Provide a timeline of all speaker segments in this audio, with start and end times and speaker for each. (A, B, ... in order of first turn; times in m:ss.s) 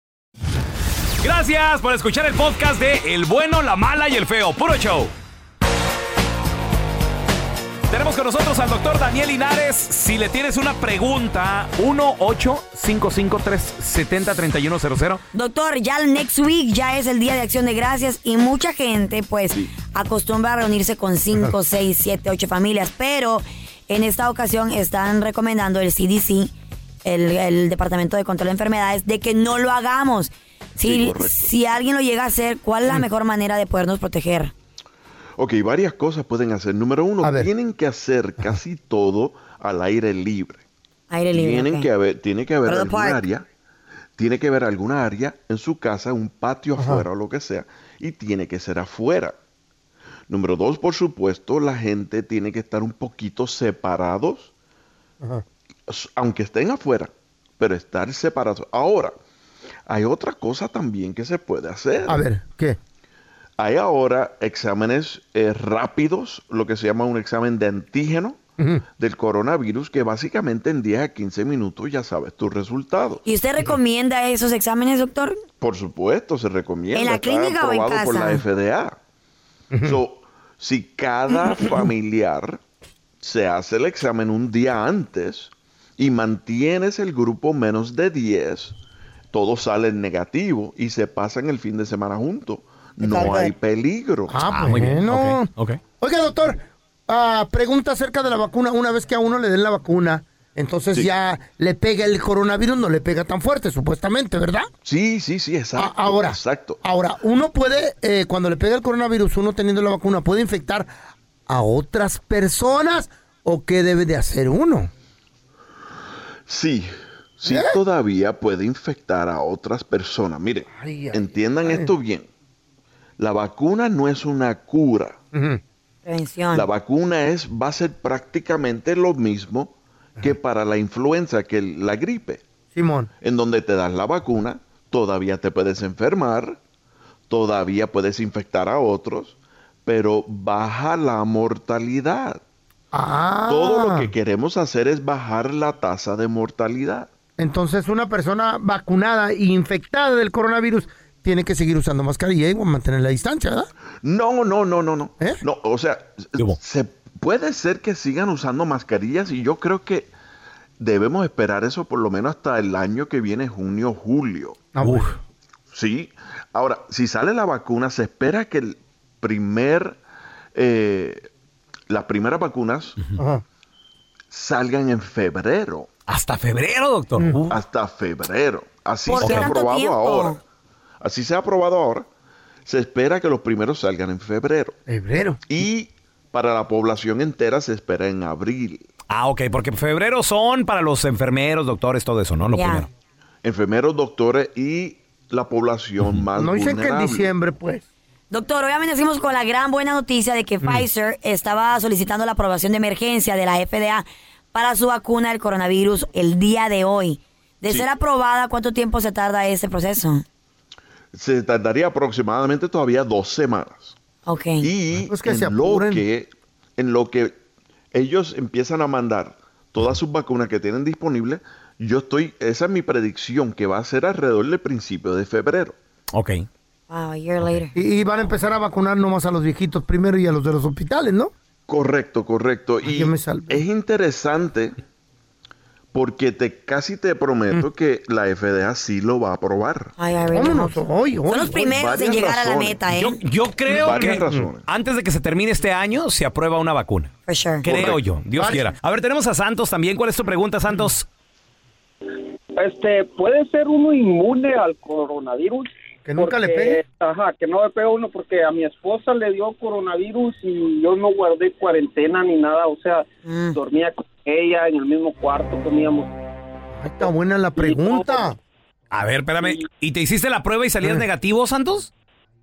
0:01.2-0:05.1 A
0:07.9-0:15.2 A
0:15.3-0:26.5 B
0:27.0-0:34.5 B
0:30.8-0:31.5 C
0:35.4-0:40.6 C
0:37.2-0:37.5 D
0:41.1-0:41.9 B
0:41.3-0:43.5 C
0:42.6-0:43.2 B
0:44.2-0:49.4 C
0:46.8-0:47.1 D
0:50.3-0:54.5 C
0:55.9-0:59.1 C
0:59.9-1:02.3 C
1:02.1-1:02.8 D
1:03.6-1:08.4 C
1:09.0-1:13.2 C
1:13.2-1:15.4 B
1:15.6-1:19.0 C
1:16.9-1:18.4 B
1:19.7-1:20.0 D
1:19.8-1:22.6 C
1:23.2-1:28.8 C
1:29.3-1:34.4 C
1:33.0-1:33.5 B
1:33.0-1:33.3 D
1:34.3-1:35.5 D
1:34.5-1:35.8 A
1:36.0-1:44.7 D
1:44.8-1:46.8 C
1:45.8-1:50.9 D
1:51.5-1:54.9 D
1:56.5-2:02.3 C
1:57.5-1:57.8 D
2:00.7-2:01.9 D
2:03.2-2:05.2 C
2:05.3-2:05.6 D
2:06.0-2:06.7 B
2:06.5-2:12.4 C
2:12.7-2:13.1 D
2:13.2-2:16.6 C
2:17.3-2:22.4 C
2:22.9-2:24.1 D
2:23.5-2:27.1 C
2:27.4-2:33.7 D
2:34.0-2:40.1 C
2:40.8-2:44.7 C
2:44.7-2:45.1 D
2:44.8-2:45.1 A
2:45.7-2:50.0 C
2:50.6-2:51.3 C
2:51.9-2:53.0 C
2:53.2-2:53.4 D
2:54.3-2:55.9 C
2:56.1-2:57.6 A
2:57.5-3:00.4 C
2:59.1-3:00.4 B
2:59.2-2:59.5 A
3:01.0-3:02.1 C
3:02.6-3:04.8 C
3:04.9-3:05.4 D
3:05.5-3:08.8 C
3:09.1-3:12.9 A
3:12.5-3:12.9 B
3:13.4-3:17.3 C
3:16.4-3:17.8 D
3:18.3-3:30.2 B
3:31.1-3:34.0 C
3:34.3-3:34.7 B
3:34.6-3:37.4 C
3:35.0-3:36.0 D
3:37.9-3:45.8 C
3:46.1-3:46.5 A
3:46.9-3:47.7 B
3:47.7-3:51.3 D
3:51.7-3:54.8 C
3:52.8-3:53.6 D
3:55.9-3:59.9 C
4:00.0-4:03.2 B
4:00.3-4:01.8 D
4:01.6-4:02.8 C
4:02.9-4:07.1 A
4:03.7-4:04.6 C
4:04.1-4:04.5 D
4:07.3-4:07.8 B
4:07.6-4:11.1 A
4:07.7-4:08.0 C
4:08.4-4:08.7 D
4:12.6-4:26.1 E
4:16.1-4:16.8 D
4:23.3-4:23.6 B
4:26.7-4:28.4 D
4:27.6-4:28.3 E
4:28.9-4:31.9 A